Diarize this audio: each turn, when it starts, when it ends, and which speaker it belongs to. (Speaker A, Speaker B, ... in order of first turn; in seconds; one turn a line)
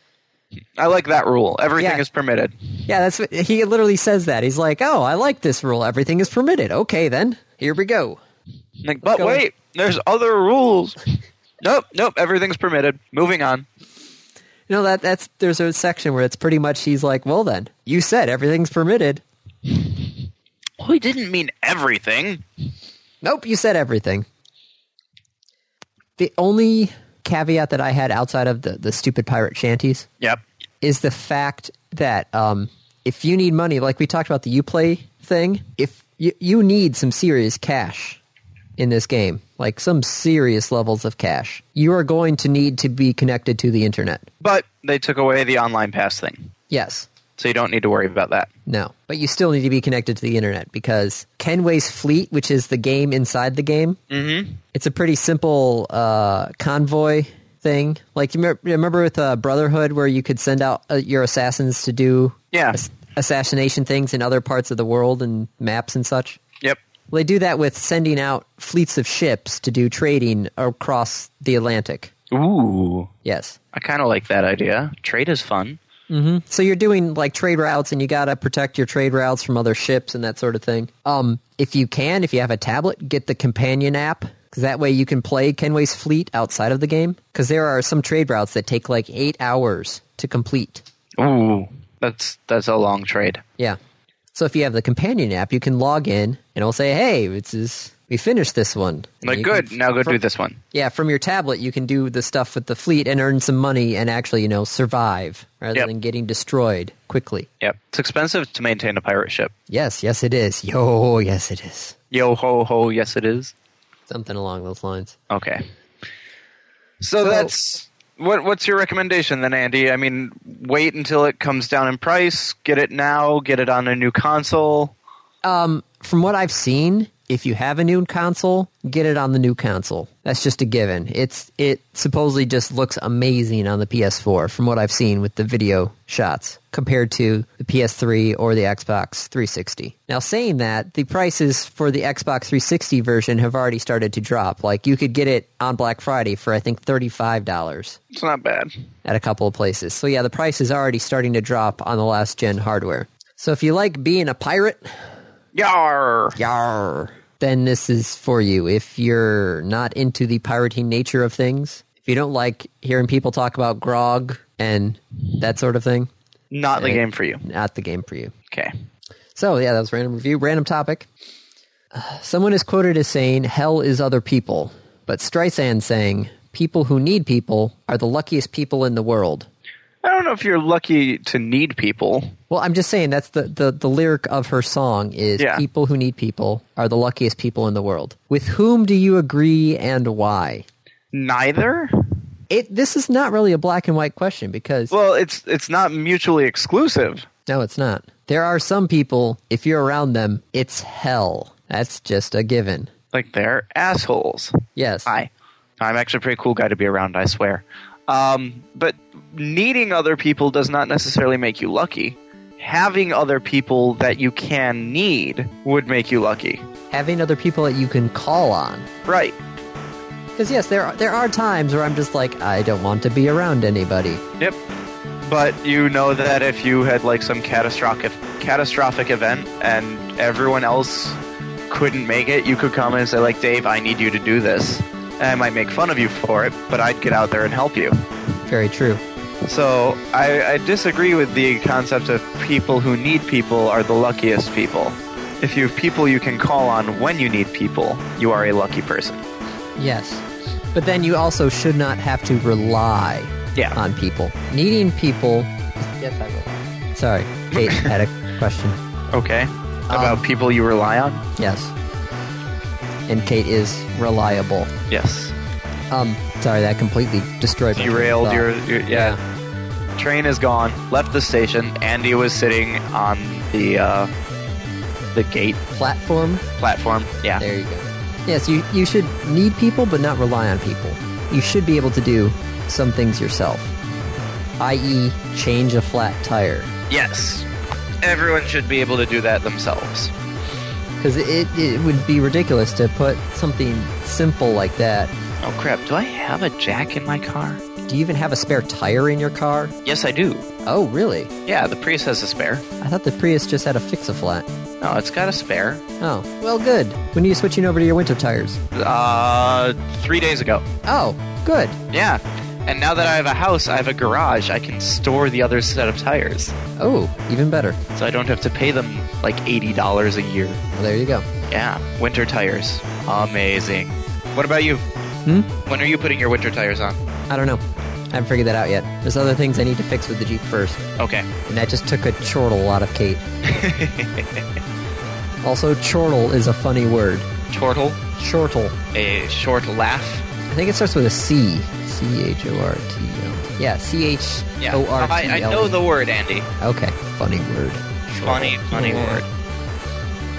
Speaker A: 0.8-2.5
Speaker B: 1.8-2.0
Speaker B: 2.9-8.2
Speaker A: 8.8-11.0
Speaker B: 9.0-9.4
Speaker A: 11.6-13.7
Speaker B: 14.7-19.2
Speaker A: 20.8-22.4
Speaker B: 23.2-24.3
Speaker B: 26.2-30.1
Speaker B: 30.8-38.2
Speaker B: 38.8-44.3
Speaker A: 44.4-46.5
Speaker B: 46.7-47.1
Speaker A: 47.4-48.5
Speaker B: 48.7-54.0
Speaker A: 54.1-54.6
Speaker B: 54.7-66.4
Speaker A: 62.5-62.8
Speaker B: 67.1-72.1
Speaker A: 72.3-73.1
Speaker B: 73.2-73.6
Speaker A: 73.7-75.8
Speaker B: 76.1-90.8
Speaker A: 91.2-93.4
Speaker B: 94.3-100.2
Speaker A: 99.2-100.6
Speaker B: 100.7-107.5
Speaker A: 107.6-109.5
Speaker B: 109.7-112.0
Speaker A: 112.1-113.5
Speaker B: 114.1-115.2
Speaker A: 115.3-115.6
Speaker A: 117.0-124.9
Speaker B: 117.2-117.5
Speaker B: 125.4-148.0
Speaker A: 148.1-148.7
Speaker B: 149.1-154.9
Speaker A: 155.6-156.4
Speaker B: 156.4-166.1
Speaker A: 166.5-167.4
Speaker B: 166.8-168.3
Speaker B: 169.3-171.1
Speaker B: 171.9-179.5
Speaker A: 180.0-182.3
Speaker B: 182.5-190.7
Speaker A: 185.4-185.6
Speaker A: 191.1-191.9
Speaker B: 192.5-194.9
Speaker A: 194.9-197.3
Speaker B: 197.5-202.9
Speaker A: 203.1-216.7
Speaker B: 204.8-205.1
Speaker B: 216.9-218.9
Speaker A: 219.1-219.4
Speaker B: 220.4-224.2
Speaker A: 225.2-231.2
Speaker A: 231.7-238.0
Speaker B: 238.5-239.0
Speaker A: 239.5-249.2
Speaker B: 249.8-258.8
Speaker A: 257.5-257.9
Speaker A: 259.1-261.2
Speaker B: 259.9-260.2
Speaker B: 261.4-261.7
Speaker B: 263.1-264.7
Speaker A: 264.9-265.3
Speaker B: 265.9-269.2
Speaker A: 267.8-269.2
Speaker A: 270.0-274.1
Speaker A: 275.1-275.6
Speaker B: 275.7-276.5
Speaker A: 276.6-277.4
Speaker B: 277.4-283.7
Speaker B: 284.6-286.7
Speaker A: 286.9-287.5
Speaker A: 288.0-290.1
Speaker B: 291.0-295.1
Speaker A: 295.4-297.6
Speaker B: 297.9-299.8
Speaker A: 299.9-300.5
Speaker B: 300.6-301.3
Speaker A: 301.5-302.6
Speaker B: 302.8-304.5
Speaker A: 304.8-305.8
Speaker B: 306.0-308.6
Speaker A: 308.7-310.7
Speaker B: 310.9-311.8
Speaker A: 311.9-316.6
Speaker B: 316.8-317.8
Speaker A: 317.9-320.6
Speaker B: 320.7-321.3
Speaker A: 321.5-324.8
Speaker A: 325.6-327.0
Speaker B: 327.3-327.6
Speaker B: 328.1-330.8
Speaker A: 331.0-331.3
Speaker B: 331.5-333.2
Speaker A: 333.4-334.4
Speaker B: 335.4-337.3
Speaker A: 337.5-338.0
Speaker B: 338.1-338.8
Speaker A: 338.9-340.2
Speaker B: 340.5-345.8
Speaker A: 344.6-346.5
Speaker B: 346.6-349.2
Speaker A: 348.2-349.3